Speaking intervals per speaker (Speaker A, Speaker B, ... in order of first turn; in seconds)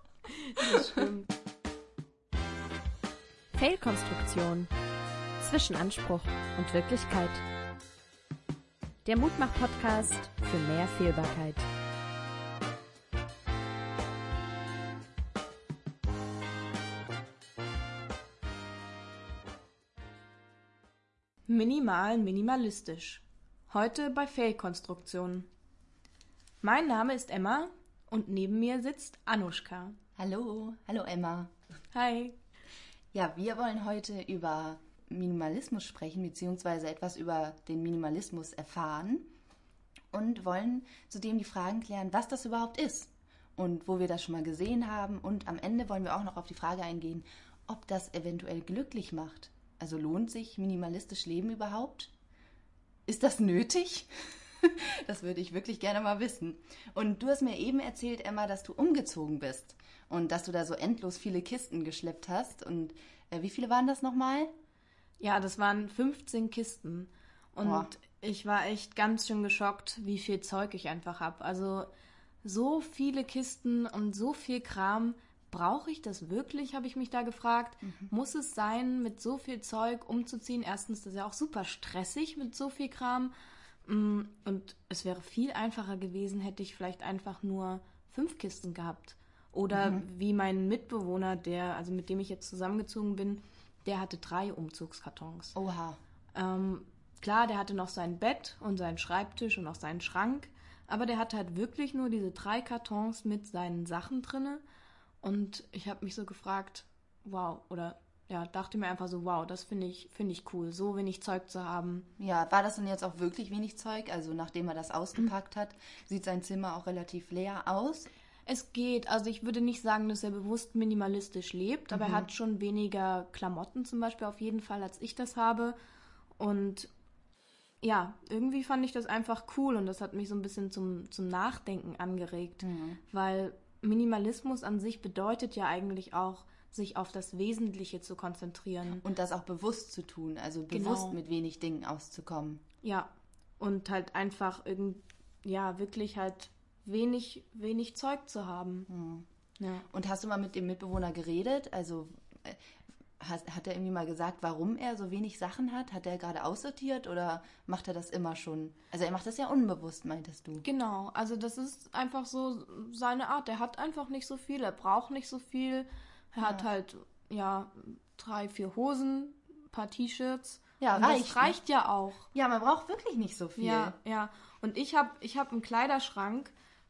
Speaker A: 0.6-1.3, 21.5-25.5, 26.6-29.9, 31.9-32.4, 65.2-71.9, 72.4-83.3, 83.9-95.5, 96.3-104.6, 105.2-112.1, 118.5-125.8, 126.4-126.9, 127.8-139.0, 140.7-141.2, 142.8-148.9, 149.6-149.8, 160.6-172.3, 173.6-176.5
Speaker B: 0.7-0.9, 30.2-31.5, 33.1-39.3, 40.1-52.1, 53.1-64.5, 67.6-67.9, 77.8-78.1, 89.7-90.0, 95.5-96.0, 112.2-118.1, 121.9-122.3, 132.6-133.0, 138.9-142.6, 148.9-149.3, 149.9-152.6, 153.2-160.6, 166.4-166.7, 170.8-171.6, 172.3-174.0
Speaker C: 3.5-4.7, 5.4-7.4, 9.1-11.6